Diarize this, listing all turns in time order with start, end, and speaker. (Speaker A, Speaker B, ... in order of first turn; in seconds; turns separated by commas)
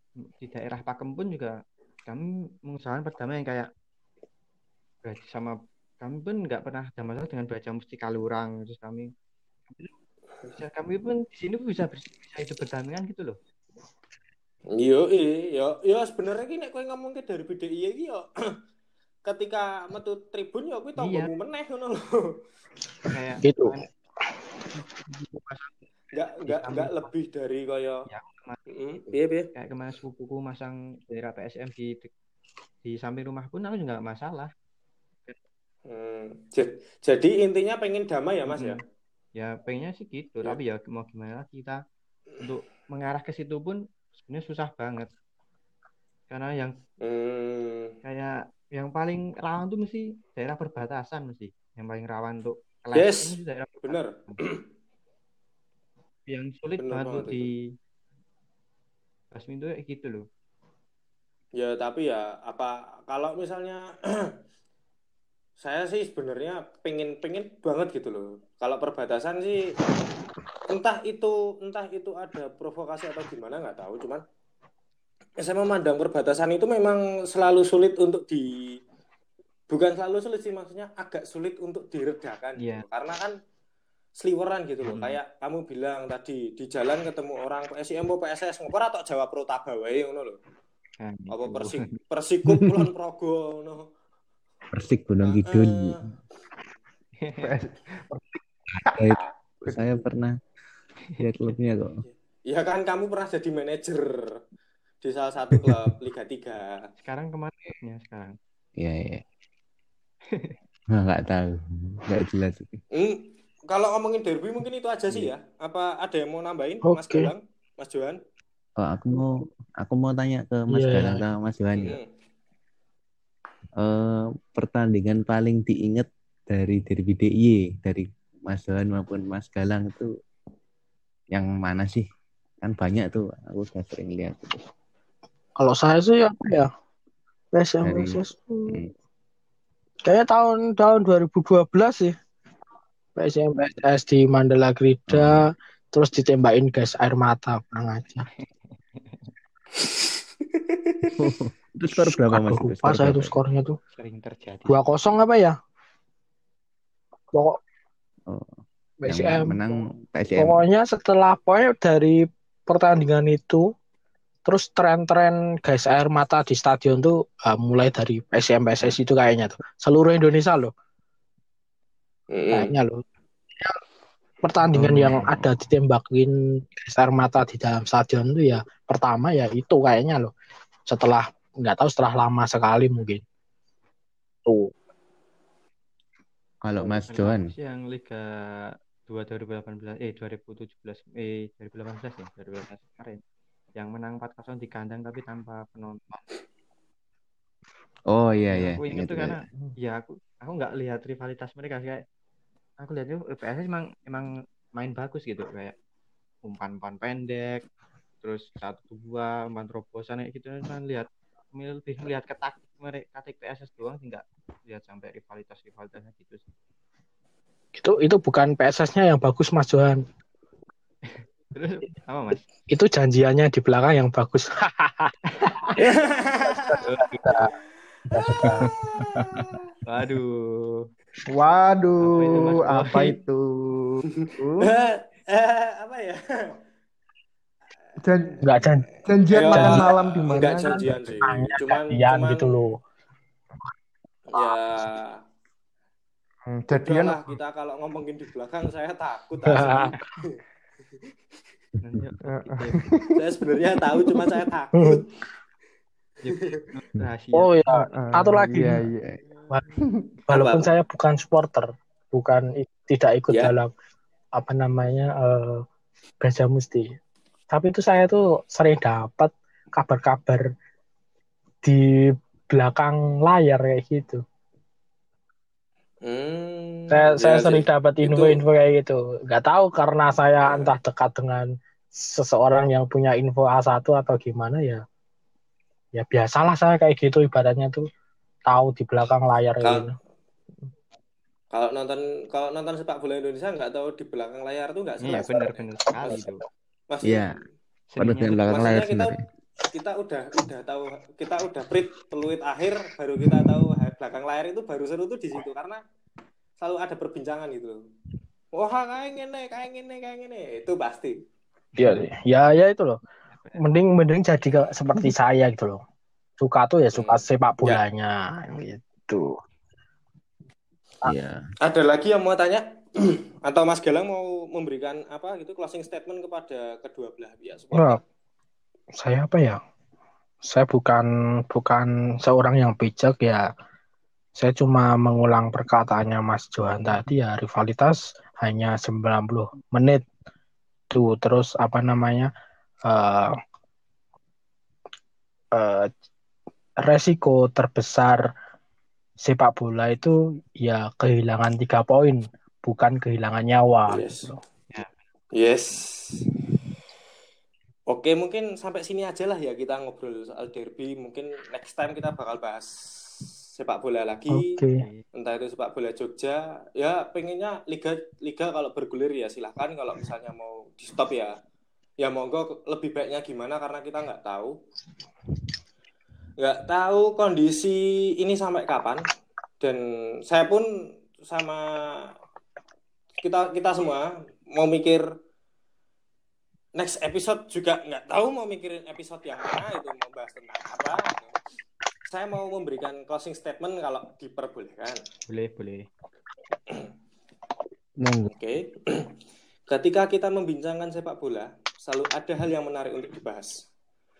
Speaker A: 0.4-3.7, Speaker A: 5.0-9.1, Speaker A: 10.5-13.4, Speaker B: 14.8-18.3, Speaker B: 19.3-22.1, Speaker A: 21.0-21.3, Speaker A: 23.1-23.9, Speaker C: 23.4-23.8, Speaker A: 24.7-25.8, Speaker B: 26.1-28.0, Speaker A: 26.3-27.1, Speaker A: 28.1-28.6, Speaker B: 28.7-29.5, Speaker A: 29.5-32.1, Speaker A: 32.8-34.5, Speaker B: 35.9-38.8, Speaker A: 38.5-38.8, Speaker A: 39.3-41.8, Speaker A: 42.4-45.1, Speaker A: 46.3-46.8, Speaker B: 47.0-47.9, Speaker A: 48.0-54.4, Speaker B: 52.9-54.6, Speaker A: 56.3-57.7, Speaker B: 56.8-57.5, Speaker A: 59.3-60.2, Speaker B: 61.6-64.2, Speaker B: 65.6-69.7, Speaker B: 70.7-74.2, Speaker B: 75.4-78.5, Speaker B: 79.7-83.3, Speaker A: 82.6-82.8, Speaker B: 84.2-90.4, Speaker A: 84.8-85.2, Speaker A: 91.0-92.0, Speaker B: 91.3-93.9, Speaker D: 94.7-96.0, Speaker B: 95.2-96.0, Speaker A: 97.2-97.5, Speaker E: 97.4-99.8, Speaker D: 98.9-100.3, Speaker A: 101.2-101.5, Speaker D: 101.2-102.0, Speaker B: 102.5-104.1, Speaker B: 105.0-106.8, Speaker A: 107.0-108.4, Speaker D: 108.8-109.2, Speaker A: 110.3-110.5, Speaker D: 110.9-112.8, Speaker B: 112.9-118.2, Speaker C: 116.9-117.3, Speaker D: 118.8-122.0, Speaker C: 120.7-121.2, Speaker B: 121.8-122.0, Speaker D: 123.8-130.1, Speaker D: 131.3-132.0, Speaker D: 132.6-134.6, Speaker C: 135.6-136.7, Speaker C: 137.5-138.8, Speaker D: 137.8-138.9, Speaker C: 140.0-142.2, Speaker C: 143.2-148.3, Speaker D: 145.1-145.4, Speaker A: 148.3-149.3, Speaker B: 150.5-151.1, Speaker D: 151.2-153.3, Speaker C: 151.9-153.8, Speaker A: 153.9-154.8, Speaker C: 154.7-155.5, Speaker C: 157.3-157.6, Speaker C: 159.0-159.6, Speaker D: 159.1-160.6, Speaker C: 160.3-163.6, Speaker C: 164.4-170.7, Speaker B: 172.3-172.7, Speaker C: 172.5-173.0, Speaker C: 174.4-180.3, Speaker D: 174.8-175.4, Speaker C: 180.9-183.2, Speaker C: 184.4-184.7, Speaker D: 186.6-187.5, Speaker A: 186.8-193.2, Speaker A: 193.8-196.3, Speaker D: 198.1-199.4, Speaker A: 198.5-202.0, Speaker A: 202.8-205.7, Speaker A: 206.4-207.6, Speaker A: 208.2-216.4, Speaker C: 217.7-220.0, Speaker A: 221.0-222.4, Speaker C: 222.7-225.1, Speaker A: 225.3-225.8, Speaker B: 225.8-226.8, Speaker C: 226.6-227.5, Speaker A: 226.8-227.4, Speaker C: 228.1-228.7, Speaker B: 228.4-229.5, Speaker A: 229.8-230.9, Speaker E: 231.3-234.7, Speaker A: 232.0-233.2, Speaker B: 234.6-236.2, Speaker E: 238.0-238.5, Speaker C: 238.4-238.9, Speaker E: 239.1-240.9, Speaker B: 239.3-242.5, Speaker C: 239.5-242.8, Speaker B: 244.3-245.2, Speaker E: 246.5-247.3, Speaker B: 246.8-250.0, Speaker C: 249.5-250.1, Speaker A: 251.8-252.9, Speaker E: 252.2-253.1, Speaker B: 253.1-255.0, Speaker E: 254.1-254.3, Speaker C: 254.8-255.0, Speaker A: 256.2-257.8, Speaker C: 257.3-258.9, Speaker E: 257.8-259.2, Speaker C: 260.3-263.7, Speaker B: 260.3-260.7, Speaker C: 264.3-265.6, Speaker C: 266.2-266.9, Speaker C: 267.5-270.4, Speaker C: 271.6-274.2, Speaker B: 276.0-278.4, Speaker C: 276.9-284.8, Speaker B: 280.4-280.7, Speaker C: 285.9-287.8, Speaker C: 288.5-289.9, Speaker B: 291.5-296.2, Speaker A: 295.0-296.4, Speaker B: 296.9-297.4, Speaker A: 297.9-298.5, Speaker D: 298.0-299.1, Speaker B: 298.3-299.1, Speaker B: 299.7-305.8, Speaker B: 306.6-307.8, Speaker B: 308.5-311.1, Speaker C: 311.8-313.0, Speaker A: 313.3-313.6, Speaker C: 313.6-315.8, Speaker C: 316.4-319.3, Speaker B: 316.9-317.8, Speaker D: 321.0-321.4, Speaker B: 321.6-328.0, Speaker C: 327.7-328.0, Speaker C: 329.0-329.6, Speaker C: 330.4-333.4, Speaker C: 334.4-340.0, Speaker C: 340.9-342.3, Speaker C: 342.9-343.3, Speaker C: 345.5-345.9, Speaker C: 346.8-348.3, Speaker C: 349.2-354.4, Speaker B: 353.9-354.3, Speaker B: 355.3-356.2, Speaker B: 357.9-362.7, Speaker B: 363.6-364.5, Speaker C: 364.3-364.8, Speaker A: 364.7-365.0, Speaker B: 365.1-371.3, Speaker B: 372.0-374.5, Speaker B: 376.4-379.1, Speaker B: 379.6-380.6, Speaker B: 381.2-381.8, Speaker B: 383.2-385.0, Speaker B: 386.8-391.3, Speaker B: 392.1-395.0, Speaker A: 395.3-395.9, Speaker D: 398.0-398.3, Speaker B: 398.3-399.1, Speaker B: 399.7-403.5